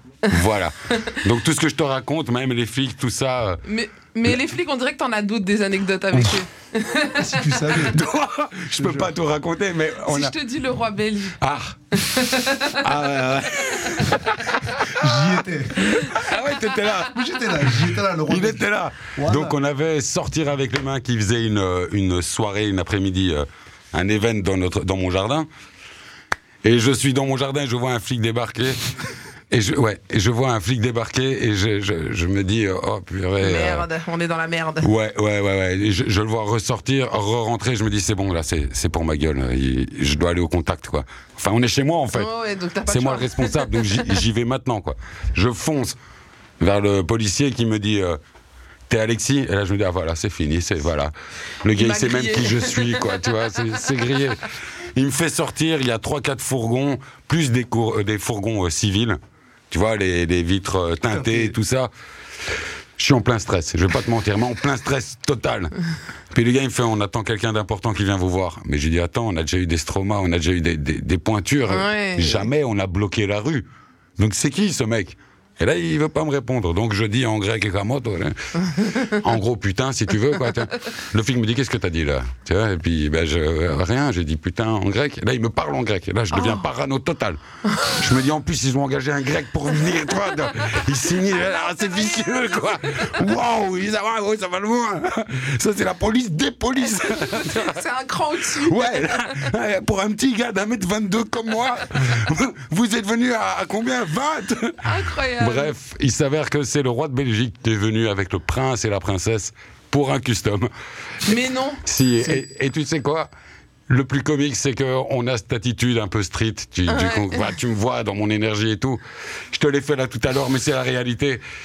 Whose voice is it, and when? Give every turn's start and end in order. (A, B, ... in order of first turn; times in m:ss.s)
0:00.3-0:03.6 A
0:03.6-0:07.7 B
0:06.1-0:06.4 A
0:07.1-0:08.0 C
0:07.9-0:10.3 A
0:08.8-0:09.1 C
0:10.0-0:11.4 B
0:11.4-0:12.0 A
0:11.9-0:12.8 B
0:12.8-0:15.3 A
0:15.0-0:16.0 C
0:15.8-0:17.2 A
0:17.1-0:19.6 C
0:18.3-0:25.5 A
0:26.6-0:28.9 A
0:29.5-0:33.8 A
0:33.4-0:34.9 B
0:34.8-0:42.3 A
0:42.1-0:44.1 B
0:42.9-0:46.0 A
0:46.6-0:48.2 A
0:48.9-0:51.1 A
0:51.6-0:54.4 A
0:51.7-0:53.0 B
0:55.0-0:59.2 A
0:59.7-1:01.9 A
1:01.1-1:01.5 C
1:03.0-1:05.7 A
1:06.3-1:13.6 A
1:11.7-1:12.5 B
1:14.2-1:27.4 A
1:26.3-1:26.6 B
1:27.7-1:28.0 B
1:27.9-1:37.8 A
1:31.5-1:33.1 B
1:37.3-1:39.3 B
1:38.6-1:50.7 A
1:44.8-1:45.7 B
1:51.2-1:51.8 B
1:51.8-1:53.3 A
1:53.9-1:59.0 A
1:56.9-1:57.4 B
1:59.5-2:01.4 A